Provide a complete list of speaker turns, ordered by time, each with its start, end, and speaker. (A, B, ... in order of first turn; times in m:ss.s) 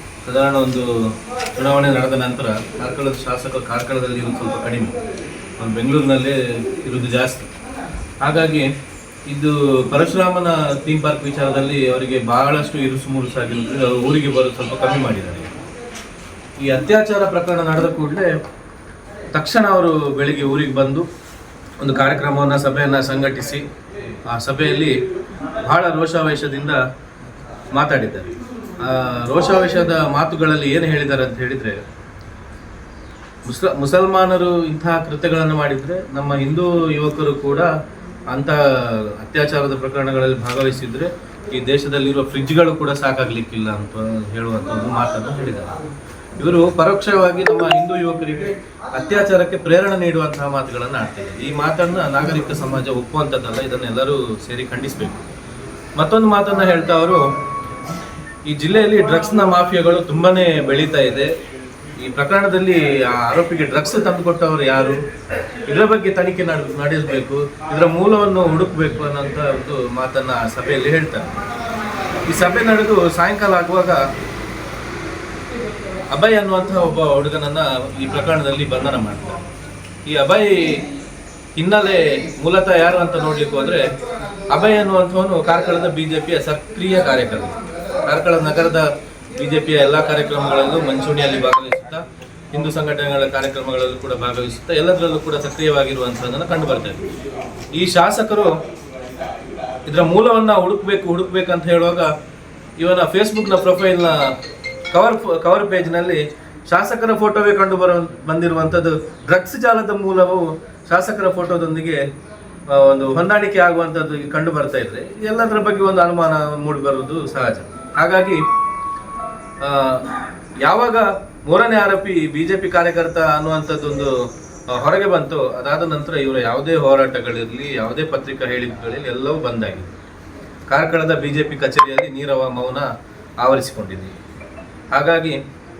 0:00.2-0:05.0 A
0:05.6-0:07.5 A
0:08.2-0:08.7 A
0:09.3-0:15.5 A
0:16.6-0:18.3 A
0:19.3-0:21.0 A
0:21.8-0:23.6 A
0:24.3-0:25.0 A
0:25.6-0:26.8 A
0:27.8-0:31.8 A
0:33.4-0:37.7 A
0:38.3-0:45.8 A
0:46.4-0:55.2 A
0:56.0-0:57.3 A
0:58.5-1:01.3 A
1:02.0-1:05.0 A
1:05.7-1:11.4 A
1:12.2-1:14.0 A
1:16.1-1:19.4 A
1:20.1-1:20.8 A
1:21.6-1:23.9 A
1:24.5-1:37.0 A
1:37.7-1:38.6 A
1:39.8-1:42.1 A
1:42.8-1:44.3 A
1:44.9-1:52.0 A
1:52.7-1:58.4 A
1:59.6-2:04.1 A
2:04.7-2:09.9 A
2:10.7-2:12.9 A
2:13.4-2:14.1 A
2:14.9-2:15.4 A